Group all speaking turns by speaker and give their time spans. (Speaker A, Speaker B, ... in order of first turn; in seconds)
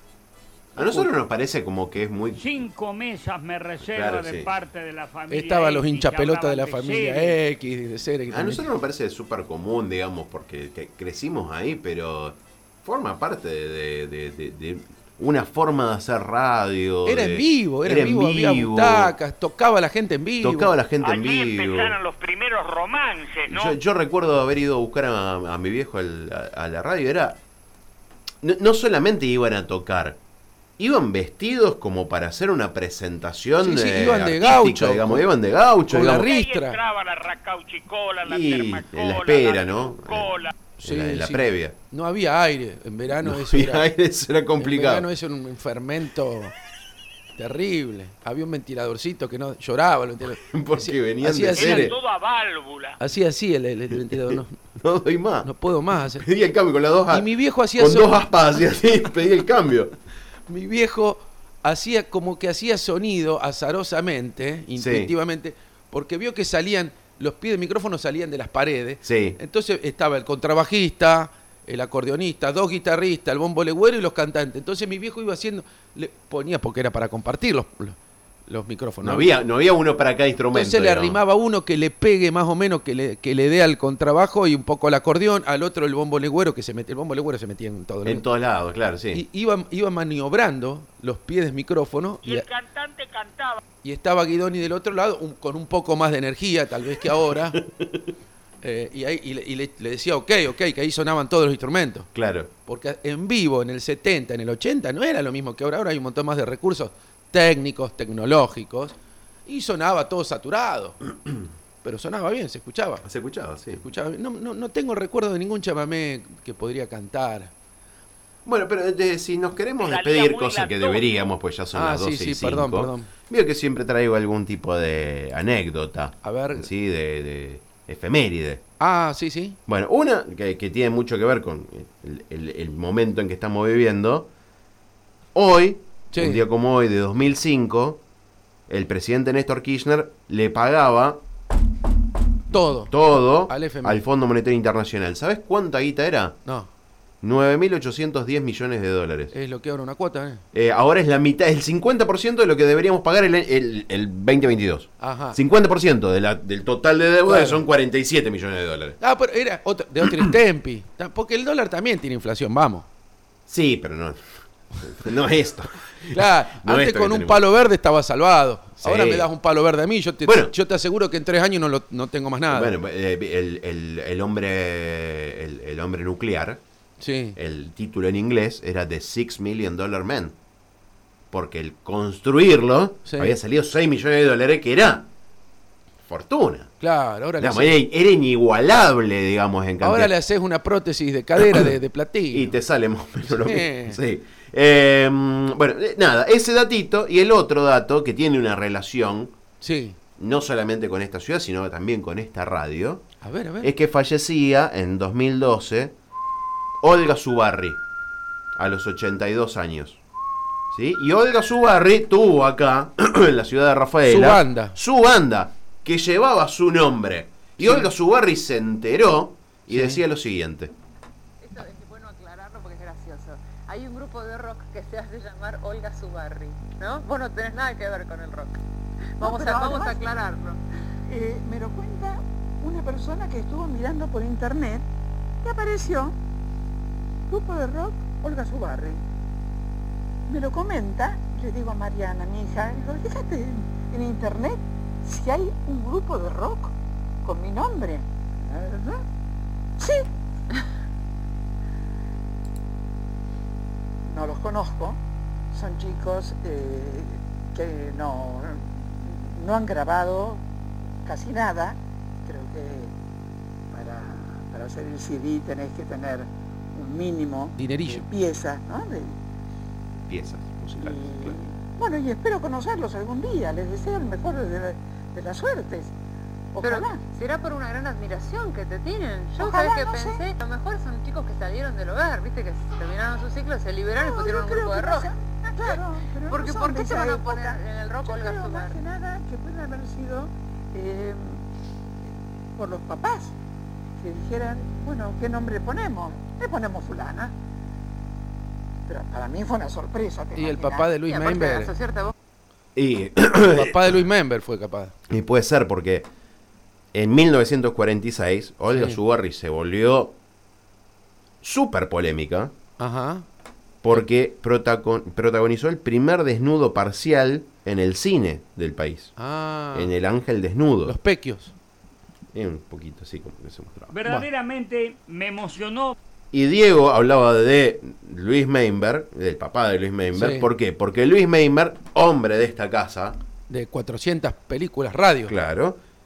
Speaker A: 0.8-1.1, 5.3-8.7, 17.1-20.7, 33.6-35.3, 35.9-36.8, 40.8-43.9, 44.6-46.5, 47.4-52.0, 53.0-54.6, 55.4-56.3, 57.1-58.1, 60.5-78.0, 78.5-79.3, 80.5-88.2, 89.1-92.5, 93.8-97.6, 98.6-102.1, 102.7-109.0, 109.5-111.0, 111.8-113.1, 113.8-117.5, 121.7-123.1, 126.2-126.7, 128.8-129.6, 136.1-136.4, 142.5-144.0, 149.3-150.4, 155.0-155.4, 157.3-157.7, 159.0-162.9, 166.1-172.8, 177.0-177.4, 183.1-183.4, 186.8-187.8, 189.8-192.6, 193.3-194.0, 199.6-200.0, 203.2-203.7, 214.1-214.8, 217.6-217.9, 219.7-220.0, 267.6-268.1, 300.4-301.7, 303.4-304.9, 308.7-309.0, 312.8-313.3, 319.2-319.9, 320.9-321.5, 330.1-330.5, 333.5-335.4
Speaker B: 0.8-2.5, 3.9-4.5, 8.3-19.1, 20.4-22.0, 23.5-27.4, 28.4-30.2, 30.8-36.3, 38.2-41.8, 43.2-45.1, 50.3-52.0, 53.9-55.5, 56.2-59.9, 64.8-65.1, 69.0-69.4, 79.0-81.2, 88.0-89.2, 97.5-98.0, 102.2-102.5, 113.0-113.8, 118.5-128.6, 129.7-134.3, 135.3-138.0, 138.7-141.2, 142.9-146.4, 147.2-149.3, 150.5-159.0, 163.5-167.4, 168.8-169.3, 170.2-170.5, 172.5-176.6, 177.4-180.4, 181.3-185.1, 186.1-186.7, 187.4-190.1, 191.4-191.7, 192.3-199.3, 200.2-203.1, 203.6-205.9, 206.8-207.8, 208.6-210.0, 210.7-220.7, 270.1-271.4, 302.8-304.0, 305.1-306.1, 306.9-310.2, 311.4-312.5, 313.8-319.1, 319.7-321.0, 322.3-323.9, 326.3-333.2, 335.3-335.8
Speaker C: 2.4-7.4, 323.9-326.0
Speaker D: 21.0-23.8, 36.1-40.5, 51.5-53.0, 92.2-93.6, 119.8-121.1
Speaker E: 221.4-228.6, 229.2-230.6, 276.6-285.1, 286.3-288.8, 301.0-302.1
Speaker F: 229.2-230.1, 231.1-234.9, 235.4-236.2, 237.3-239.0, 240.3-249.0, 249.8-250.1, 254.1-255.0, 255.5-260.5, 261.0-262.9, 263.7-269.2, 270.8-275.9, 276.5-277.0, 279.4-280.2, 284.0-291.4, 292.6-293.4, 294.0-297.3, 298.9-300.9